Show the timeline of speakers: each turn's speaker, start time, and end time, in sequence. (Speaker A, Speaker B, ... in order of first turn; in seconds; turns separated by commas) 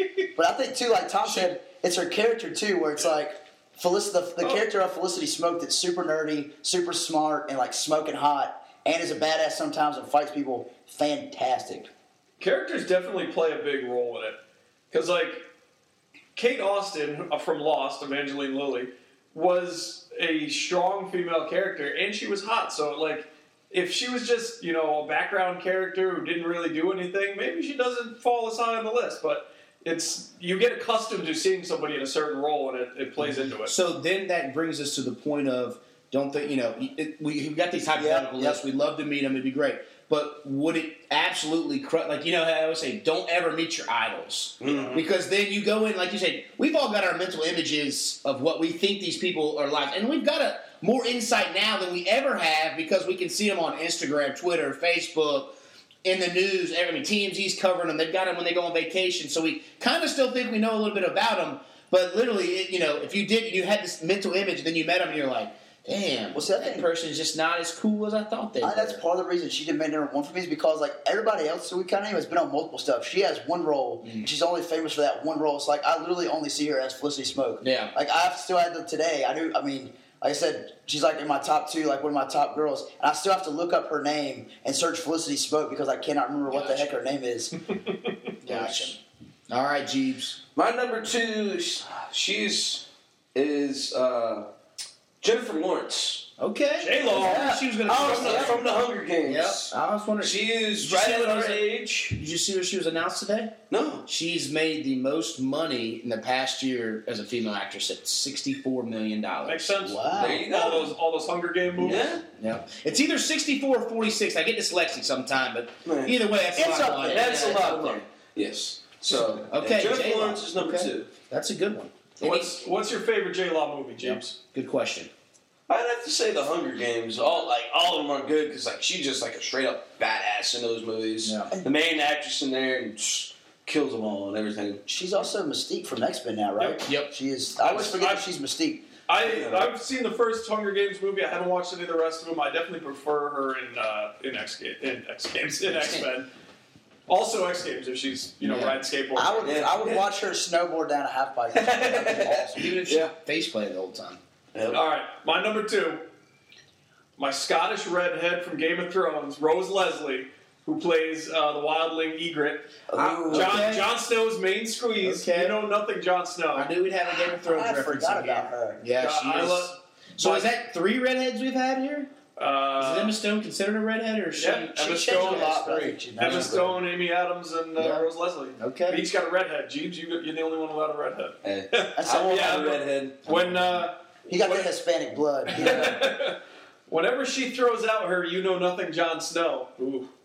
Speaker A: 0.3-11.9, Speaker B: 12.4-14.4, Speaker B: 14.9-15.5, Speaker B: 16.4-33.7, Speaker C: 33.2-69.0, Speaker A: 38.0-38.6, Speaker D: 44.6-45.0, Speaker A: 66.3-66.9, Speaker A: 68.6-87.5, Speaker C: 74.0-74.3, Speaker C: 77.6-77.9, Speaker C: 86.5-87.0, Speaker B: 87.8-88.2, Speaker C: 88.4-89.0, Speaker A: 88.4-88.9, Speaker C: 89.5-90.4, Speaker D: 90.5-94.5, Speaker D: 95.2-96.3, Speaker C: 96.4-98.6, Speaker B: 96.8-97.5, Speaker A: 97.1-98.6, Speaker D: 97.8-102.2, Speaker C: 99.2-110.5, Speaker D: 103.7-104.0, Speaker B: 109.5-112.2, Speaker A: 110.0-110.4, Speaker D: 110.1-110.9, Speaker D: 111.8-112.2, Speaker C: 111.8-118.0, Speaker D: 115.8-116.1, Speaker A: 116.5-117.5, Speaker D: 117.1-121.1, Speaker C: 119.0-122.6, Speaker B: 122.2-124.4, Speaker C: 124.0-125.1, Speaker D: 125.7-134.8, Speaker C: 131.2-131.5, Speaker A: 134.9-138.8, Speaker C: 136.8-137.1, Speaker B: 137.6-138.2, Speaker B: 139.1-146.3, Speaker D: 139.2-139.7, Speaker C: 145.7-146.1, Speaker B: 147.1-149.8, Speaker C: 148.4-148.8, Speaker A: 149.2-152.8, Speaker D: 149.4-150.0, Speaker D: 151.5-153.1, Speaker C: 152.5-154.2, Speaker D: 154.5-154.8, Speaker B: 154.7-156.1, Speaker B: 157.2-162.7, Speaker A: 162.9-163.6, Speaker C: 162.9-163.9, Speaker B: 163.3-166.7, Speaker C: 165.0-165.6, Speaker C: 166.5-172.1, Speaker A: 167.2-168.8, Speaker B: 169.0-170.5, Speaker B: 172.4-173.2, Speaker C: 172.8-176.6, Speaker B: 174.4-175.6, Speaker A: 174.8-176.8, Speaker B: 176.2-184.7, Speaker C: 177.8-179.0, Speaker D: 181.4-183.2, Speaker A: 182.0-182.4, Speaker A: 184.3-186.0, Speaker B: 185.5-186.4, Speaker D: 185.6-185.9, Speaker B: 186.9-190.1